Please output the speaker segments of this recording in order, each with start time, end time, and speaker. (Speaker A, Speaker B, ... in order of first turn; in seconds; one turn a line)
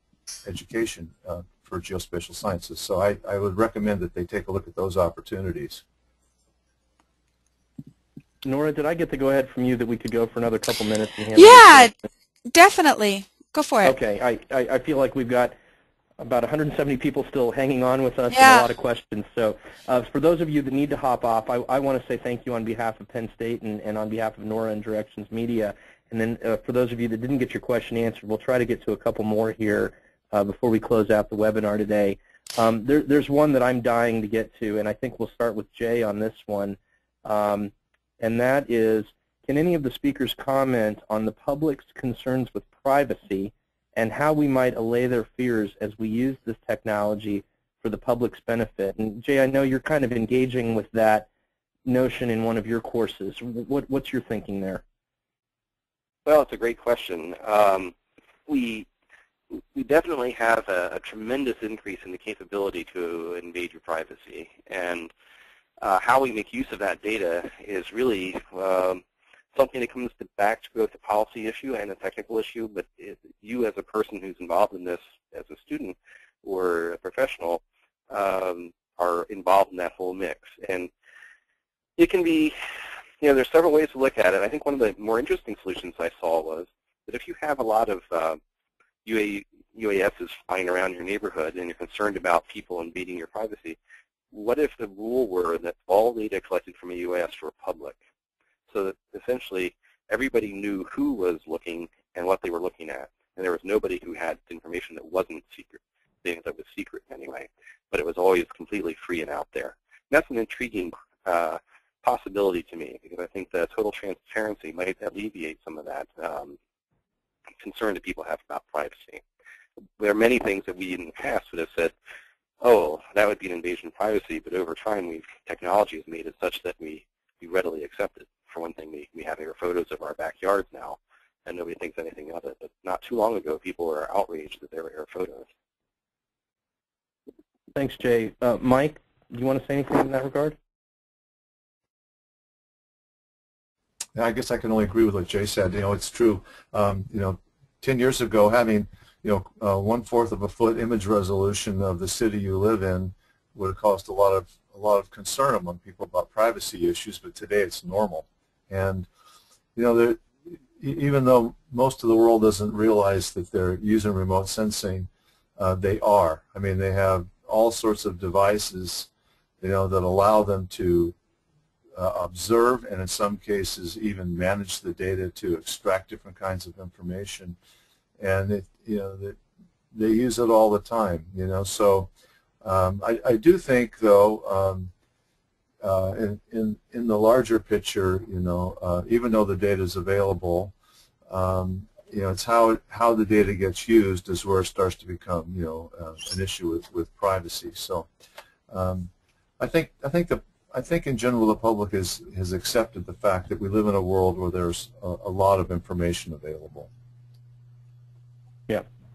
Speaker A: 0.5-5.8
Speaker B: 8.4-11.9
Speaker C: 11.3-11.9
Speaker C: 12.5-13.9
Speaker B: 13.8-15.6
Speaker B: 16.2-51.3
Speaker C: 18.3-18.7
Speaker B: 51.9-54.8
Speaker D: 56.2-57.9
Speaker D: 58.5-58.9
Speaker D: 59.6-65.1
Speaker D: 65.8-69.0
Speaker D: 69.5-80.9
Speaker D: 82.0-82.6
Speaker D: 83.2-88.4
Speaker D: 89.0-93.8
Speaker D: 94.3-98.0
Speaker D: 98.7-116.6
Speaker D: 117.6-119.2
Speaker D: 120.0-121.9
Speaker D: 122.6-135.5
Speaker B: 137.8-140.6
Speaker A: 144.2-159.1
Speaker A: 159.8-169.1
Speaker A: 169.6-171.2
Speaker A: 171.9-177.6
Speaker A: 178.2-179.4
Speaker A: 179.9-182.1
Speaker A: 182.6-184.9
Speaker A: 185.8-190.7
Speaker A: 191.3-198.1
Speaker A: 198.7-206.9